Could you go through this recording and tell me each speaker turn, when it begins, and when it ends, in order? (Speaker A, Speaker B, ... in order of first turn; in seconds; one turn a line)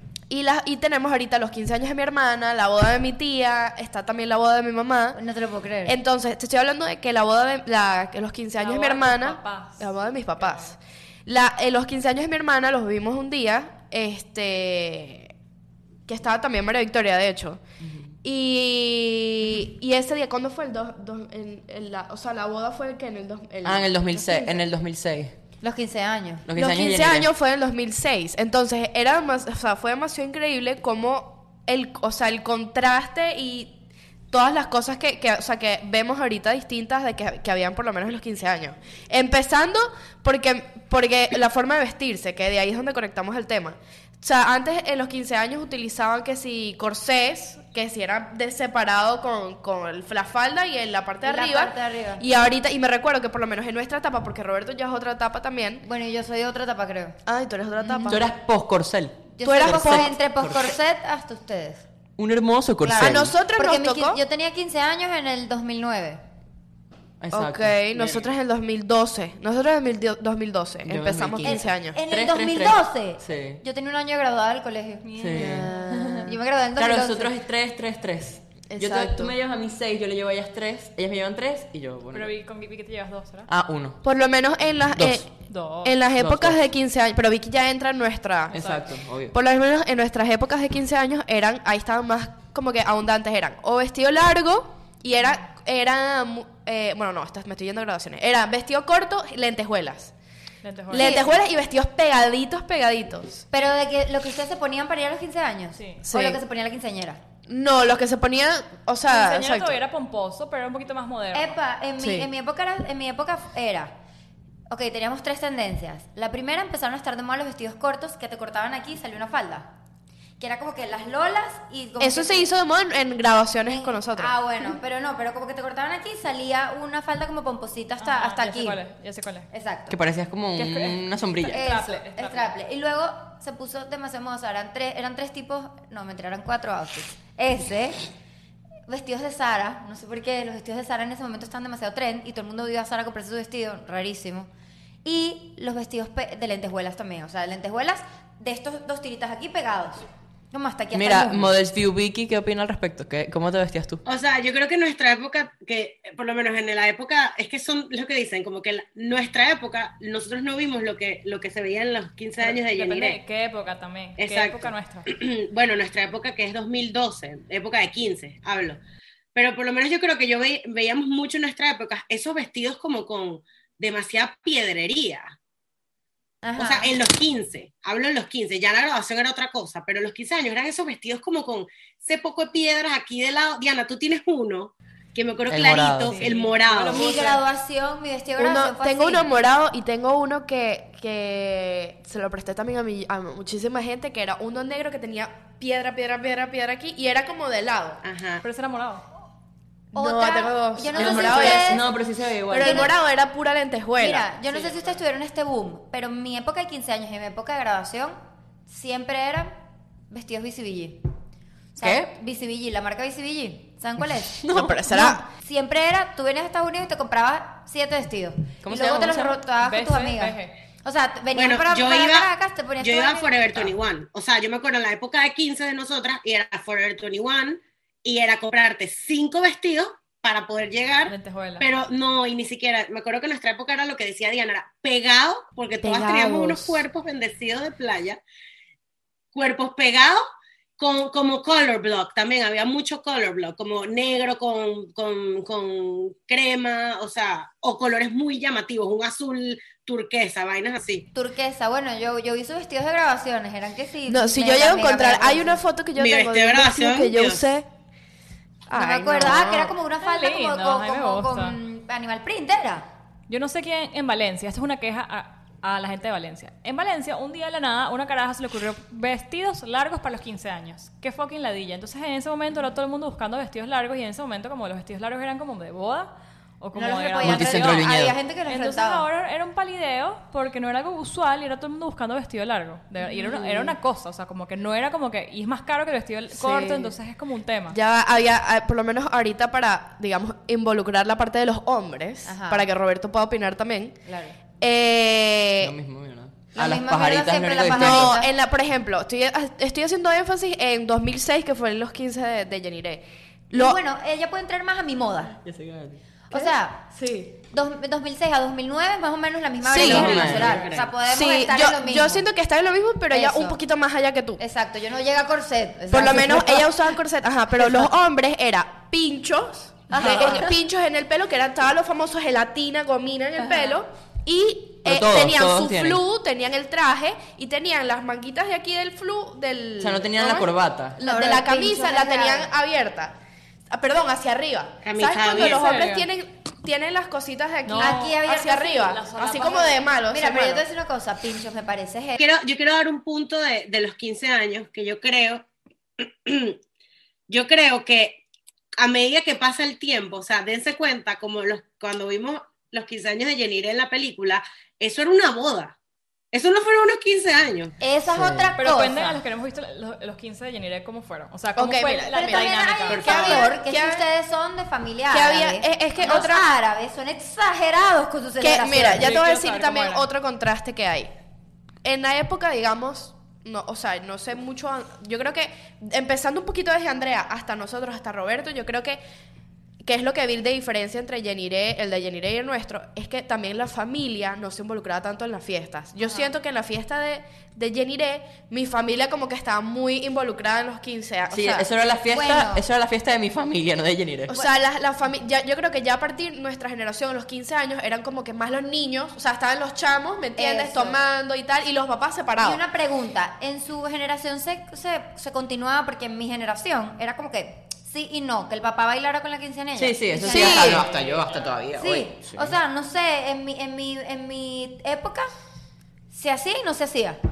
Speaker A: 0.3-5.2
Speaker B: 5.1-6.0
Speaker A: 5.9-15.3
Speaker C: 8.6-10.7
Speaker A: 16.1-17.6
Speaker D: 17.8-18.1
Speaker A: 18.2-24.6
Speaker D: 23.6-25.3
Speaker B: 25.6-26.4
Speaker D: 26.4-27.3
Speaker A: 26.6-33.8
Speaker A: 34.3-55.9
Speaker B: 51.2-52.2
Speaker B: 55.8-57.2
Speaker A: 57.2-58.3
Speaker B: 57.8-58.2
Speaker D: 58.1-60.8
Speaker B: 59.4-61.9
Speaker A: 59.5-60.1
Speaker D: 62.2-63.3
Speaker B: 62.8-66.2
Speaker A: 63.0-64.2
Speaker D: 67.2-67.8
Speaker A: 67.3-72.0
Speaker E: 68.0-68.3
Speaker D: 70.8-73.6
Speaker B: 71.4-77.3
Speaker C: 75.0-75.7
Speaker D: 75.2-75.7
Speaker A: 75.3-76.3
Speaker D: 76.8-82.3
Speaker A: 78.7-79.3
Speaker C: 82.1-83.5
Speaker D: 83.5-84.0
Speaker A: 84.0-85.3
Speaker D: 85.0-85.3
Speaker C: 85.5-86.0
Speaker A: 85.8-88.7
Speaker D: 86.2-86.6
Speaker D: 88.5-89.4
Speaker C: 88.5-88.8
Speaker A: 89.3-100.1
Speaker C: 100.6-101.1
Speaker A: 100.9-103.4
Speaker B: 100.9-101.3
Speaker B: 103.5-107.2
Speaker C: 105.8-106.0
Speaker A: 106.0-106.4
Speaker A: 107.5-109.8
Speaker C: 109.1-111.6
Speaker B: 111.3-113.9
Speaker A: 112.0-112.3
Speaker B: 114.7-119.7
Speaker B: 120.4-122.5
Speaker A: 122.0-124.3
Speaker B: 123.7-128.8
Speaker C: 128.0-129.5
Speaker B: 129.5-130.0
Speaker D: 129.9-131.6
Speaker C: 130.6-132.5
Speaker B: 131.5-138.0
Speaker B: 138.9-144.5
Speaker B: 145.0-151.5
Speaker D: 150.9-154.0
Speaker E: 154.1-163.2
Speaker C: 162.4-165.1
Speaker E: 164.2-168.8
Speaker E: 169.3-175.3
Speaker B: 176.4-176.9
Speaker E: 176.6-187.2
Speaker D: 185.5-186.3
Speaker C: 186.1-187.1
Speaker B: 186.9-189.3
Speaker A: 188.4-198.0
Speaker E: 198.0-198.4
Speaker C: 198.4-199.0
Speaker A: 199.9-201.8
Speaker B: 199.9-201.8
Speaker D: 200.9-202.9
Speaker A: 202.5-204.3
Speaker B: 202.6-202.9
Speaker B: 204.0-209.6
Speaker E: 204.5-205.0
Speaker B: 210.1-211.0
Speaker B: 211.8-223.7
Speaker D: 211.8-212.1
Speaker D: 214.4-215.1
Speaker A: 214.5-215.2
Speaker D: 218.6-219.4
Speaker C: 219.6-220.6
Speaker E: 221.3-238.2
Speaker C: 231.1-231.7
Speaker B: 235.8-236.8
Speaker A: 235.8-236.6
Speaker E: 239.3-240.2
Speaker E: 240.8-251.1
Speaker B: 251.1-255.6
Speaker A: 254.1-257.7
Speaker E: 256.0-257.5
Speaker A: 258.7-259.8
Speaker B: 258.7-262.9
Speaker C: 260.0-261.6
Speaker C: 263.3-277.9
Speaker B: 276.7-279.1
Speaker D: 277.2-278.2
Speaker C: 278.5-287.8
Speaker A: 283.1-283.7
Speaker A: 286.3-286.9
Speaker A: 287.7-294.0
Speaker B: 292.3-292.7
Speaker B: 294.1-294.4
Speaker A: 294.6-295.7
Speaker D: 295.6-298.2
Speaker B: 296.6-298.3
Speaker A: 297.7-303.8
Speaker B: 303.5-305.4
Speaker D: 305.4-306.0
Speaker B: 306.3-306.9
Speaker A: 306.3-307.3
Speaker B: 307.5-312.2
Speaker A: 309.6-310.3
Speaker D: 309.7-310.7
Speaker C: 310.1-310.7
Speaker E: 310.2-310.9
Speaker A: 311.1-314.4
Speaker B: 313.1-313.6
Speaker B: 314.4-316.7
Speaker A: 315.9-333.1
Speaker B: 319.9-320.6
Speaker D: 324.8-326.0
Speaker D: 329.8-331.0
Speaker B: 331.0-332.5
Speaker A: 333.7-340.6
Speaker E: 334.8-335.8
Speaker C: 335.3-336.1
Speaker C: 337.7-338.2
Speaker B: 337.8-342.2
Speaker C: 338.8-339.8
Speaker E: 342.2-345.5
Speaker E: 346.0-346.6
Speaker E: 347.3-348.2
Speaker E: 348.8-355.8
Speaker E: 356.3-357.8
Speaker B: 357.8-359.2
Speaker D: 358.1-358.5
Speaker C: 358.6-363.3
Speaker A: 361.6-364.0
Speaker B: 362.1-369.1
Speaker E: 362.9-363.5
Speaker A: 365.1-366.5
Speaker A: 368.4-371.1
Speaker C: 368.9-370.1
Speaker A: 371.8-379.0
Speaker A: 379.8-391.7
Speaker B: 386.0-386.3
Speaker D: 391.3-394.3
Speaker B: 392.1-392.6
Speaker A: 394.3-402.6
Speaker B: 400.4-401.0
Speaker B: 402.4-410.9
Speaker D: 409.8-412.6
Speaker A: 410.3-410.9
Speaker C: 410.6-411.5
Speaker B: 411.8-415.3
Speaker B: 416.1-417.2